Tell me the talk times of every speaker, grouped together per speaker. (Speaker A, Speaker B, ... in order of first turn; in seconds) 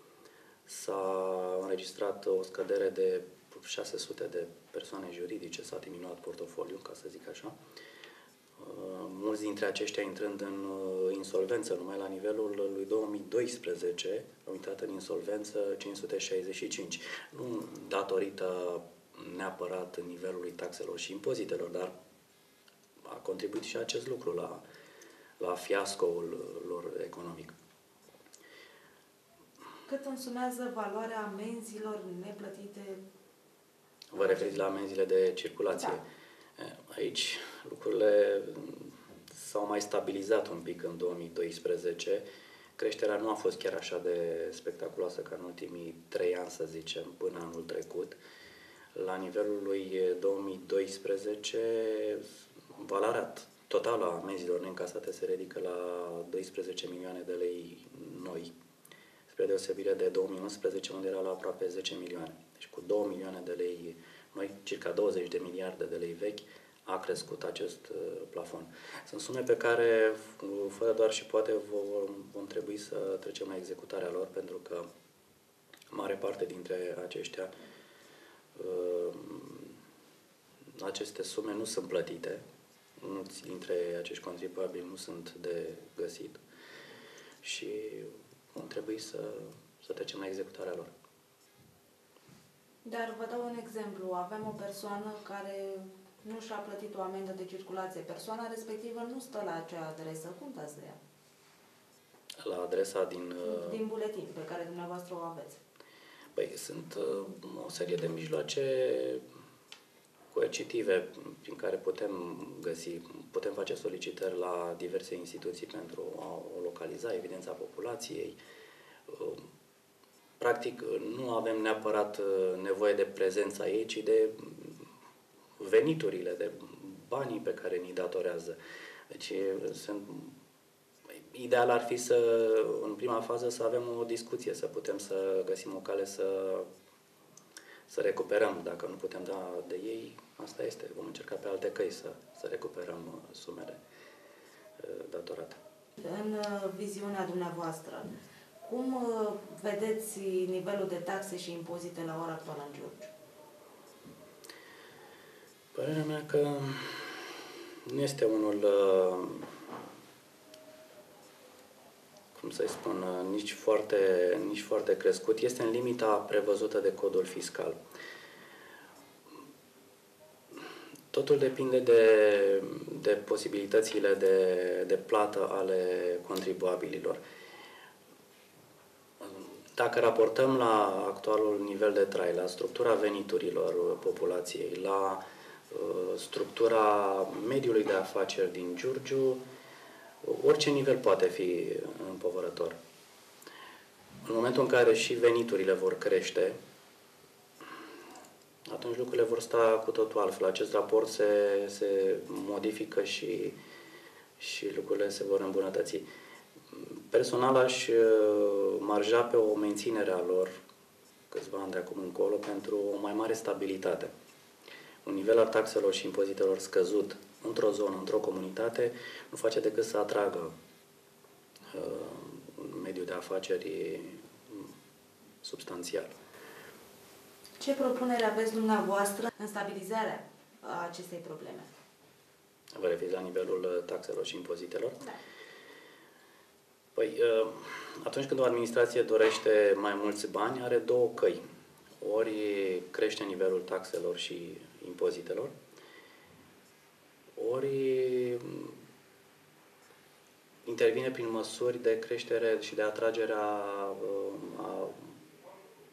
Speaker A: 0.7-7.5, 8.6-21.9, 23.0-24.6, 25.4-27.5, 34.1-36.0, 36.6-42.2, 42.8-48.2, 48.9-58.5, 59.3-74.8, 75.9-77.5, 78.5-79.8, 80.7-82.4, 83.0-86.4, 87.4-90.9, 102.4-103.8, 106.3-109.2, 110.3-118.4, 119.1-119.4, 120.4-124.8, 125.6-128.6, 129.1-130.3, 131.1-136.7, 137.9-143.8, 144.8-145.6, 155.7-159.5, 162.3-167.8, 171.1-177.2, 179.2-189.4, 190.2-192.8, 194.2-196.6, 198.7-203.6, 204.4-206.0, 206.7-210.5, 211.3-214.1, 215.0-220.5, 221.7-224.7, 225.4-226.1, 232.7-235.1, 236.9-241.4, 242.0-245.5, 247.3-248.8, 250.6-255.1
Speaker B: 29.9-33.0, 92.8-101.0, 103.4-105.6, 146.0-153.1, 227.6-231.7